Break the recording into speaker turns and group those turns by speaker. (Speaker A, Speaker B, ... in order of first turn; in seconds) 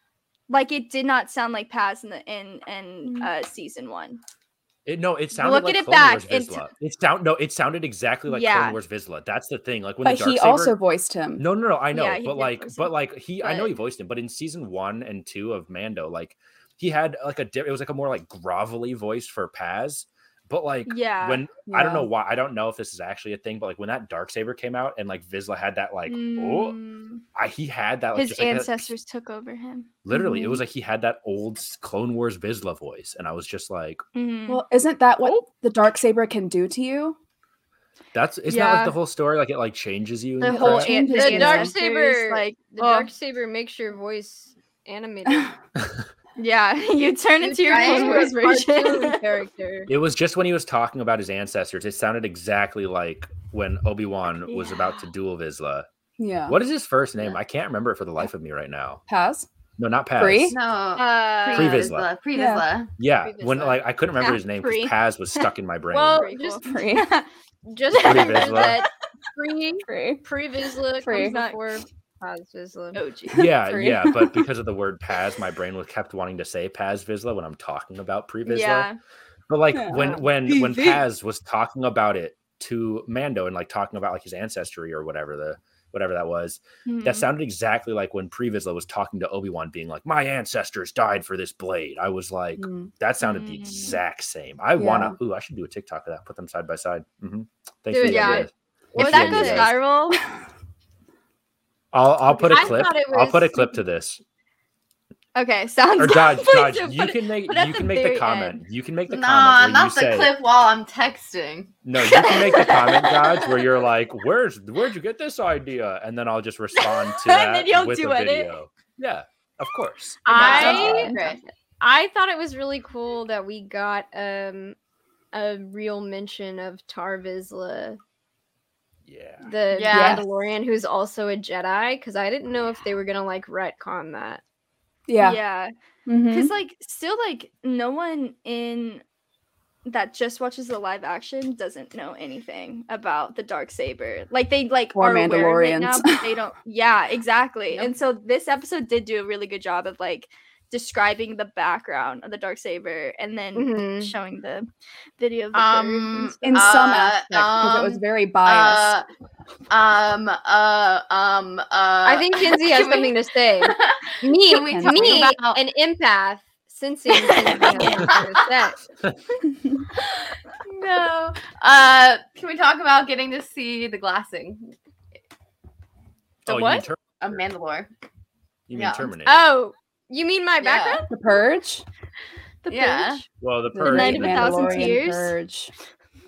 Speaker A: 0.5-4.2, 5.3-6.7, 8.3-8.8, 11.9-13.8, 20.9-21.5, 26.1-27.2, 28.1-30.0, 34.1-34.6, 38.5-39.0, 40.4-43.1, 46.4-49.2, 54.5-54.9, 61.0-61.9, 64.2-65.5, 66.2-67.3, 67.9-68.9, 71.0-71.8, 73.0-73.5, 78.5-79.0, 80.5-81.0, 86.9-87.3, 93.2-94.0, 98.0-100.2, 105.3-108.6, 112.0-113.8, 116.8-118.5, 135.2-135.7, 136.3-139.0, 139.9-156.8, 167.3-168.0, 182.7-183.2, 183.8-185.3
Speaker B: 3.0-3.3, 10.0-11.4, 21.7-22.1, 30.1-30.6, 34.5-37.2, 40.5-41.7, 56.2-56.6, 59.1-59.5, 60.2-60.6, 62.3-62.6, 66.6-67.1, 69.9-70.2, 71.0-71.3, 73.3-74.4, 79.7-80.2, 92.6-92.9, 94.8-95.2, 129.9-130.2, 135.1-135.4, 136.1-136.5, 144.9-146.2, 156.4-159.0, 164.7-165.3, 181.1-181.8, 183.7-185.7
Speaker C: 4.9-10.8, 11.4-26.8, 27.3-28.9, 30.0-34.0, 38.1-41.0, 45.8-46.1, 49.9-55.9, 56.5-59.0, 59.8-60.5, 61.5-62.1, 63.0-66.3, 68.0-68.8, 73.3-78.9, 79.5-99.8, 101.9-104.2, 106.0-110.3, 111.8-121.1, 129.1-129.5, 176.5-177.4, 178.7-179.4, 183.4-185.0
Speaker D: 41.0-45.5, 47.4-49.9, 63.2-63.8, 65.9-66.7, 67.7-73.0, 97.9-99.7, 102.3-103.8, 120.2-124.8, 125.3-128.0, 129.4-134.4, 153.6-154.1, 162.1-168.8, 176.5-176.8, 179.2-181.1
Speaker E: 47.7-48.3, 60.5-62.9, 109.1-111.7, 120.3-121.4, 129.7-130.2, 155.5-159.1, 159.7-165.6, 167.9-168.5, 170.6-174.7, 177.2-177.9, 178.7-179.1, 180.6-181.0, 182.7-183.2